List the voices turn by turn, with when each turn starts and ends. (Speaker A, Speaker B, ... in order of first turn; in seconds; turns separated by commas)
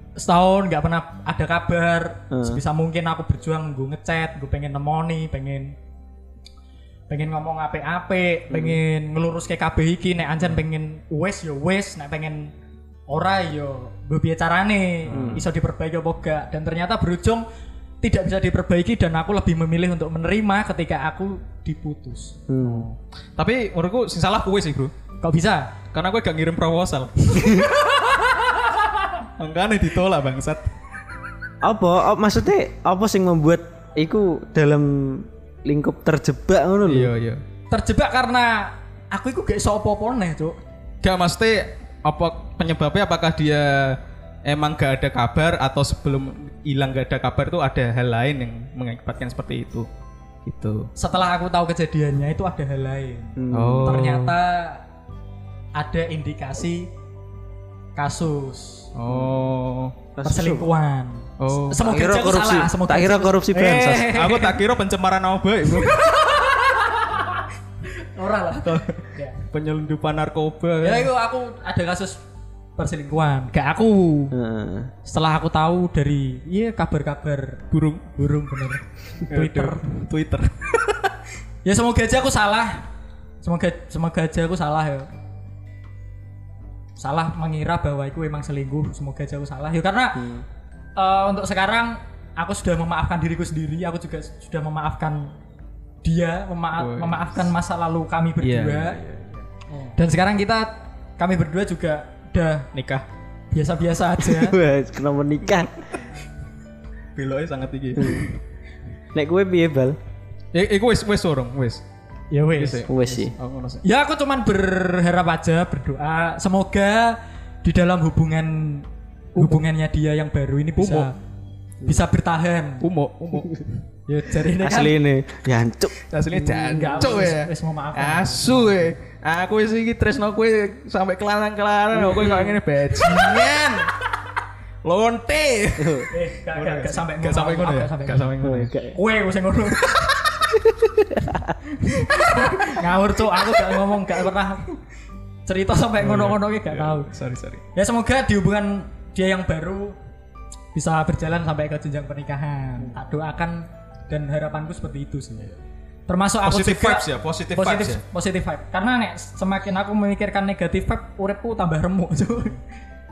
Speaker A: 0.2-5.8, Speaker B: 2.3-2.6, Speaker A: 7.1-12.5, Speaker B: 8.5-8.8, Speaker A: 13.1-17.4, Speaker C: 15.1-15.5, Speaker B: 15.1-15.4, Speaker A: 18.0-22.4, Speaker B: 22.5-22.9, Speaker C: 22.6-24.9, Speaker A: 25.2-25.7, Speaker C: 25.9-27.7, Speaker B: 27.4-27.7, Speaker A: 27.5-28.8, Speaker C: 29.4-30.7, Speaker B: 31.6-37.1, Speaker C: 36.9-37.4, Speaker A: 37.7-40.6, Speaker C: 41.0-49.9, Speaker C: 50.5-50.9, Speaker A: 51.0-54.8, Speaker B: 53.4-54.0, Speaker C: 53.5-54.4, Speaker A: 55.8-56.9, Speaker A: 58.0-58.9, Speaker C: 59.0-60.0, Speaker B: 60.2-60.7, Speaker A: 60.2-64.6, Speaker C: 61.4-61.8, Speaker B: 61.7-64.1, Speaker C: 64.1-66.8, Speaker A: 65.8-67.3, Speaker A: 68.0-69.4, Speaker C: 68.7-71.1, Speaker A: 70.8-72.2, Speaker A: 72.8-74.3, Speaker B: 74.3-74.9, Speaker A: 75.1-77.6, Speaker C: 77.7-78.1, Speaker A: 78.2-80.0, Speaker C: 79.3-81.1, Speaker A: 81.7-82.9, Speaker A: 83.4-85.1, Speaker A: 87.0-90.2, Speaker B: 90.2-90.4, Speaker A: 91.0-95.3, Speaker A: 96.0-99.0, Speaker C: 96.8-97.5, Speaker C: 98.4-99.5, Speaker A: 99.8-102.7, Speaker C: 102.7-103.1, Speaker A: 103.5-104.6, Speaker B: 104.2-105.9, Speaker C: 107.2-108.3, Speaker B: 108.0-108.3, Speaker B: 109.1-110.0, Speaker C: 110.5-111.8, Speaker A: 112.3-112.8, Speaker C: 112.6-113.8, Speaker B: 112.9-113.3, Speaker A: 113.8-121.1, Speaker C: 120.8-121.1, Speaker A: 121.8-122.8, Speaker C: 122.8-123.7, Speaker A: 124.1-125.0, Speaker B: 124.6-127.1, Speaker C: 126.1-133.9, Speaker A: 126.5-128.9, Speaker B: 131.9-132.6, Speaker A: 133.0-133.8, Speaker C: 134.8-138.7, Speaker B: 135.8-136.1, Speaker A: 136.1-138.3, Speaker B: 138.4-139.0, Speaker A: 138.9-140.0, Speaker C: 139.8-140.4, Speaker B: 140.7-141.5, Speaker C: 142.0-142.7, Speaker A: 142.1-144.7, Speaker A: 145.5-147.1, Speaker C: 146.0-147.6, Speaker A: 147.8-150.0, Speaker A: 150.7-155.5, Speaker A: 156.1-162.6, Speaker C: 156.4-158.0